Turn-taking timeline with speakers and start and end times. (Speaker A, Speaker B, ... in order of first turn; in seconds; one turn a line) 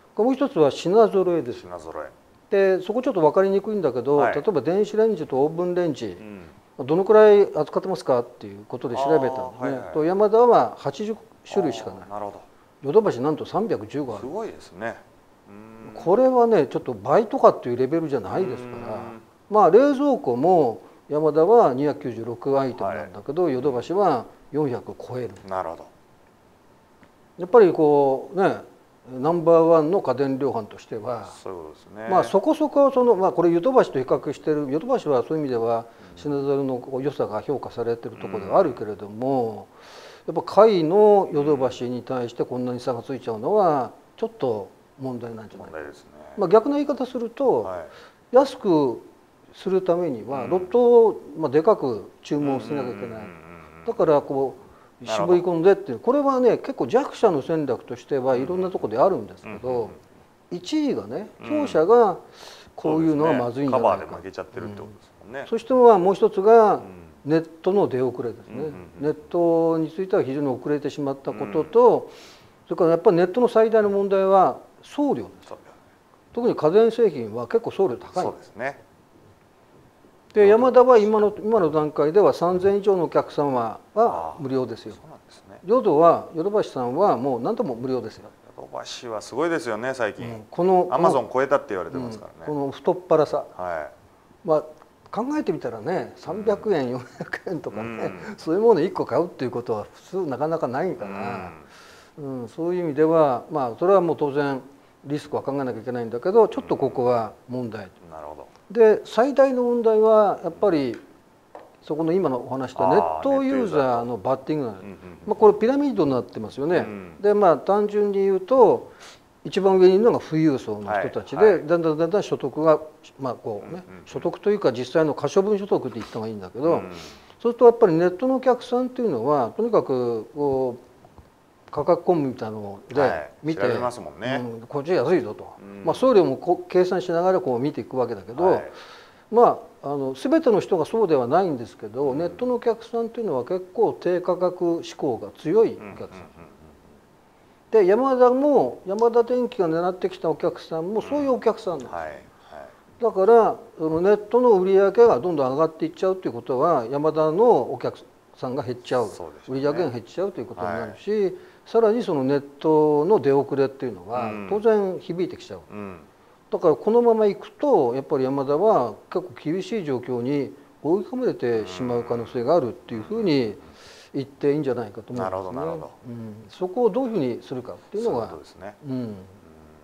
Speaker A: 0.1-1.6
Speaker B: 1.6-2.1
Speaker A: 2.5-6.2
Speaker B: 4.1-4.5
Speaker B: 6.2-6.5
Speaker A: 6.8-12.1
Speaker B: 8.9-10.0
Speaker B: 11.5-12.4
Speaker A: 12.8-14.3
Speaker B: 14.1-16.1
Speaker A: 15.8-25.4
Speaker B: 18.3-19.2
Speaker B: 22.8-23.1
Speaker B: 25.4-25.9
Speaker A: 27.4-31.3
Speaker B: 31.3-32.3
Speaker A: 32.1-39.7
Speaker B: 38.2-38.8
Speaker A: 40.2-45.7
Speaker B: 41.3-41.8
Speaker B: 45.6-46.4
Speaker A: 46.3-47.7
Speaker B: 47.6-47.9
Speaker A: 48.3-53.3
Speaker B: 50.3-50.7
Speaker B: 52.4-53.9
Speaker A: 53.8-59.9
Speaker B: 55.0-55.4
Speaker B: 58.3-58.7
Speaker B: 59.5-59.9
Speaker A: 60.5-64.9
Speaker B: 61.4-61.8
Speaker B: 62.8-65.5
Speaker A: 65.5-72.1
Speaker B: 68.5-69.0
Speaker B: 71.3-71.7
Speaker A: 72.7-75.5
Speaker B: 75.5-75.8
Speaker A: 76.3-78.4
Speaker B: 78.2-78.8
Speaker A: 80.3-85.0
Speaker B: 80.4-80.9
Speaker B: 84.0-85.6
Speaker A: 85.6-88.3
Speaker B: 88.5-92.5
Speaker A: 90.2-91.2
Speaker A: 91.9-93.5
Speaker B: 93.5-93.9
Speaker A: 94.4-101.6
Speaker B: 96.3-96.7
Speaker B: 97.7-98.2
Speaker B: 101.0-101.6
Speaker A: 102.2-107.9
Speaker B: 106.6-107.0
Speaker B: 108.0-108.5
Speaker A: 108.7-111.0
Speaker A: 111.8-118.9
Speaker B: 112.8-114.0
Speaker B: 114.8-115.3
Speaker B: 116.7-117.2
Speaker A: 119.4-130.8
Speaker B: 120.8-121.6
Speaker B: 126.7-127.1
Speaker A: 131.7-138.7
Speaker B: 132.9-134.4
Speaker B: 135.6-136.1
Speaker B: 138.3-138.7
Speaker A: 139.3-146.3
Speaker B: 142.1-142.4
Speaker B: 145.8-146.5
Speaker A: 147.7-151.9
Speaker B: 151.0-151.3
Speaker B: 151.9-152.7
Speaker A: 153.0-165.7
Speaker B: 159.1-159.9
Speaker B: 160.6-161.0
Speaker B: 164.1-164.6
Speaker B: 165.7-166.1
Speaker A: 166.5-179.3
Speaker B: 171.6-172.4
Speaker B: 172.9-173.3
Speaker B: 175.1-175.9
Speaker B: 178.0-178.8